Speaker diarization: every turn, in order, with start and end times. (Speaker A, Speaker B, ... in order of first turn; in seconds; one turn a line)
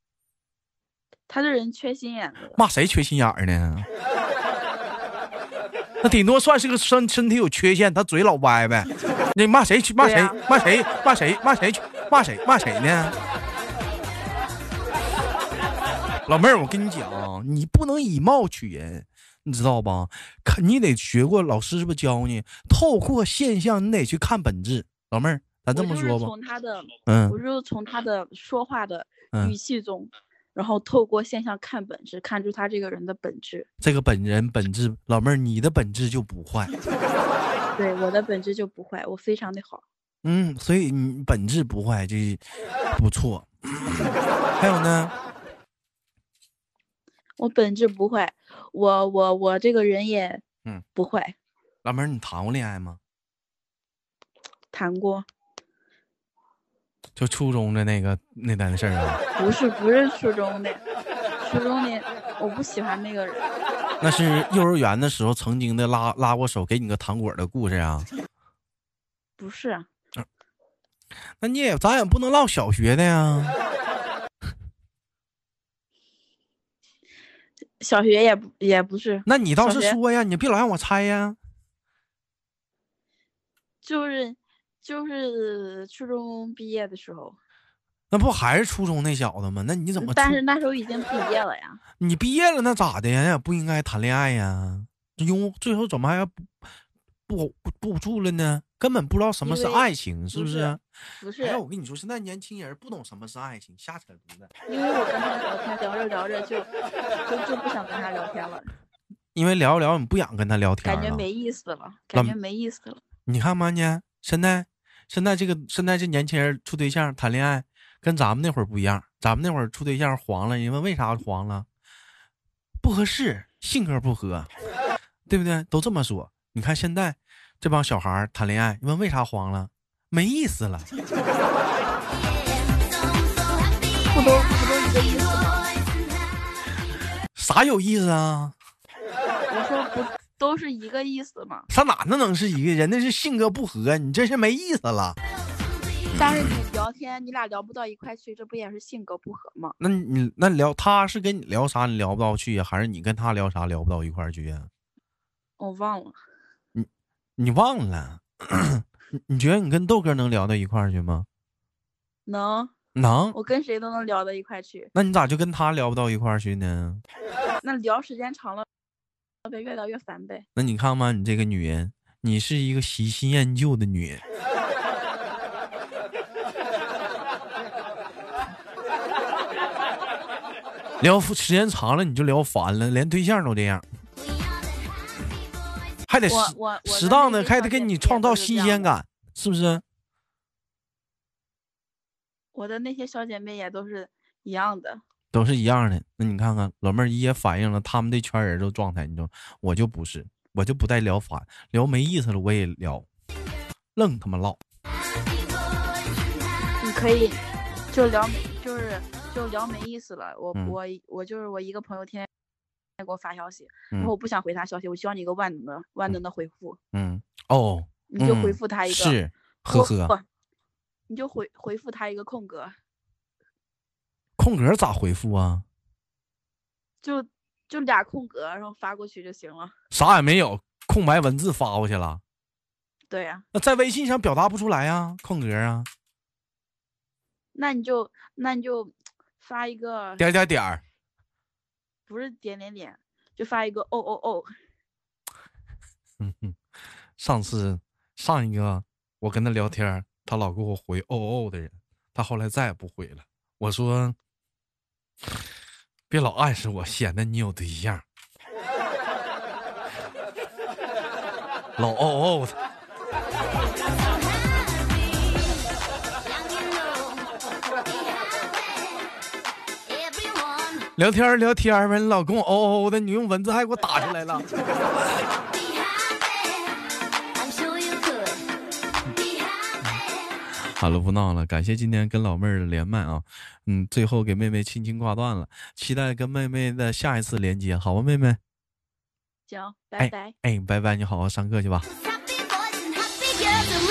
Speaker A: 1.3-2.6
Speaker B: 2.5-3.9
Speaker B: 6.0-13.2
Speaker A: 10.0-10.4
Speaker B: 16.3-26.3
Speaker A: 25.7-33.6
Speaker B: 27.1-27.4
Speaker B: 33.8-36.7
Speaker A: 37.8-39.8
Speaker B: 40.2-42.4
Speaker B: 42.9-45.1
Speaker A: 47.4-50.4
Speaker A: 50.9-51.3
Speaker B: 51.8-53.0
Speaker A: 54.7-55.2
Speaker B: 57.1-59.2
Speaker A: 59.4-60.8
Speaker A: 61.4-63.5
Speaker B: 64.0-68.1
Speaker A: 69.4-69.9
Speaker B: 71.4-73.6
Speaker A: 77.8-80.0
Speaker B: 79.2-81.4
Speaker A: 83.8-87.4
Speaker B: 88.1-90.4
Speaker A: 90.0-91.8
Speaker B: 92.0-96.5
Speaker B: 97.3-100.8
Speaker A: 99.4-101.6
Speaker B: 101.4-104.5
Speaker A: 104.7-106.7
Speaker A: 107.2-108.7
Speaker B: 109.3-111.2
Speaker A: 110.8-113.0
Speaker B: 113.2-121.7
Speaker B: 122.8-124.5
Speaker B: 125.3-130.9
Speaker A: 134.1-135.7
Speaker B: 137.3-138.5
Speaker A: 139.5-141.7
Speaker B: 141.7-145.2
Speaker B: 146.1-146.5
Speaker A: 146.2-149.7
Speaker B: 149.8-154.7
Speaker A: 155.6-156.2
Speaker B: 156.7-161.3
Speaker A: 162.2-162.7
Speaker B: 162.9-163.3
Speaker A: 163.3-164.9
Speaker B: 164.9-167.0
Speaker A: 167.6-168.7
Speaker A: 169.4-170.4
Speaker B: 170.6-174.2
Speaker B: 181.0-183.8
Speaker B: 186.1-189.8
Speaker A: 186.3-188.9
Speaker A: 192.5-195.0
Speaker B: 195.3-203.1
Speaker B: 203.9-204.6
Speaker A: 206.8-207.4
Speaker A: 207.9-212.3
Speaker A: 213.0-216.8
Speaker B: 216.9-220.1
Speaker A: 218.1-219.2
Speaker A: 219.7-220.2
Speaker A: 221.1-222.7
Speaker B: 224.4-225.6
Speaker A: 227.0-229.7
Speaker B: 229.9-232.2
Speaker A: 233.1-233.4
Speaker B: 233.5-235.9
Speaker A: 237.5-240.2
Speaker B: 240.2-240.8
Speaker A: 242.1-244.5
Speaker B: 246.2-246.6
Speaker B: 247.2-254.2
Speaker B: 256.1-258.0
Speaker B: 261.8-262.6
Speaker B: 270.9-274.4
Speaker B: 280.6-288.4
Speaker A: 289.5-290.3
Speaker B: 290.0-291.9